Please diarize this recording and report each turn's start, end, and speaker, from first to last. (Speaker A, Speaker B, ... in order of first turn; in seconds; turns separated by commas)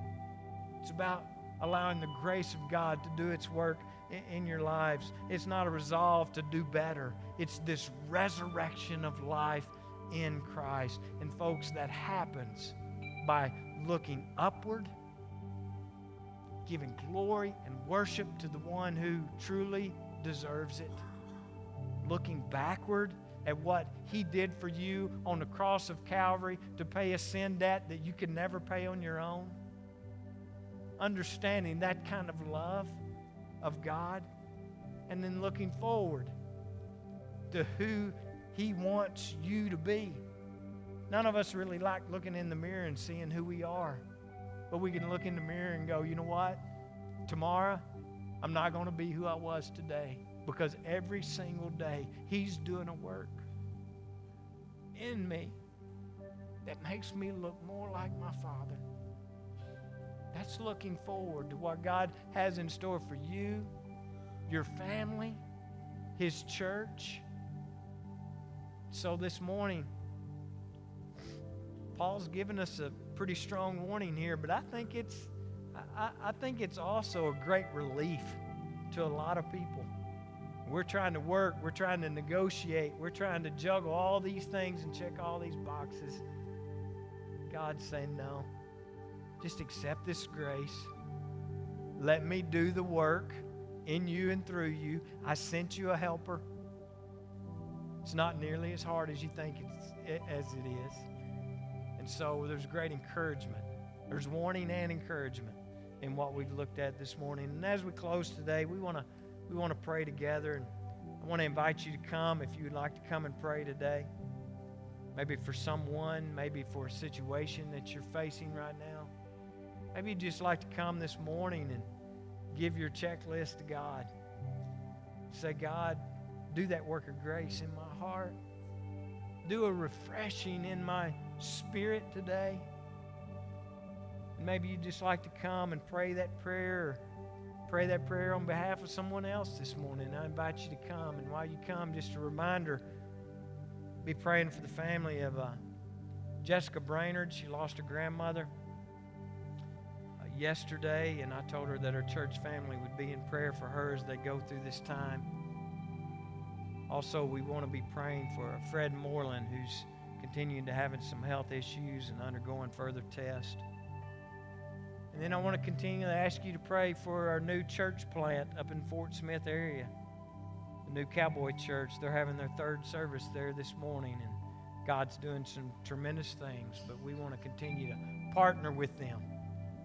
Speaker A: 0.8-14.9, Speaker A: 16.6-21.0, Speaker A: 22.0-29.6, Speaker A: 31.0-33.0, Speaker A: 33.6-34.3, Speaker A: 35.1-36.3, Speaker A: 37.5-40.2, Speaker A: 41.1-44.0, Speaker A: 44.7-46.6, Speaker A: 47.2-47.8, Speaker A: 48.4-53.5, Speaker A: 54.9-55.6, Speaker A: 56.6-58.8, Speaker A: 60.3-63.7, Speaker A: 64.5-65.4, Speaker A: 66.2-67.2, Speaker A: 68.9-69.9, Speaker A: 71.9-79.9, Speaker A: 80.6-86.2, Speaker A: 87.5-88.5, Speaker A: 89.4-90.9, Speaker A: 92.0-96.4, Speaker A: 98.0-101.1, Speaker A: 102.0-114.1, Speaker A: 115.1-119.1, Speaker A: 119.9-121.9, Speaker A: 122.5-124.1, Speaker A: 125.3-128.4, Speaker A: 129.4-132.7, Speaker A: 134.4-137.0, Speaker A: 137.7-142.8, Speaker A: 144.0-145.6, Speaker A: 146.4-148.5, Speaker A: 150.2-155.3, Speaker A: 156.9-163.6, Speaker A: 165.1-169.9, Speaker A: 170.8-179.3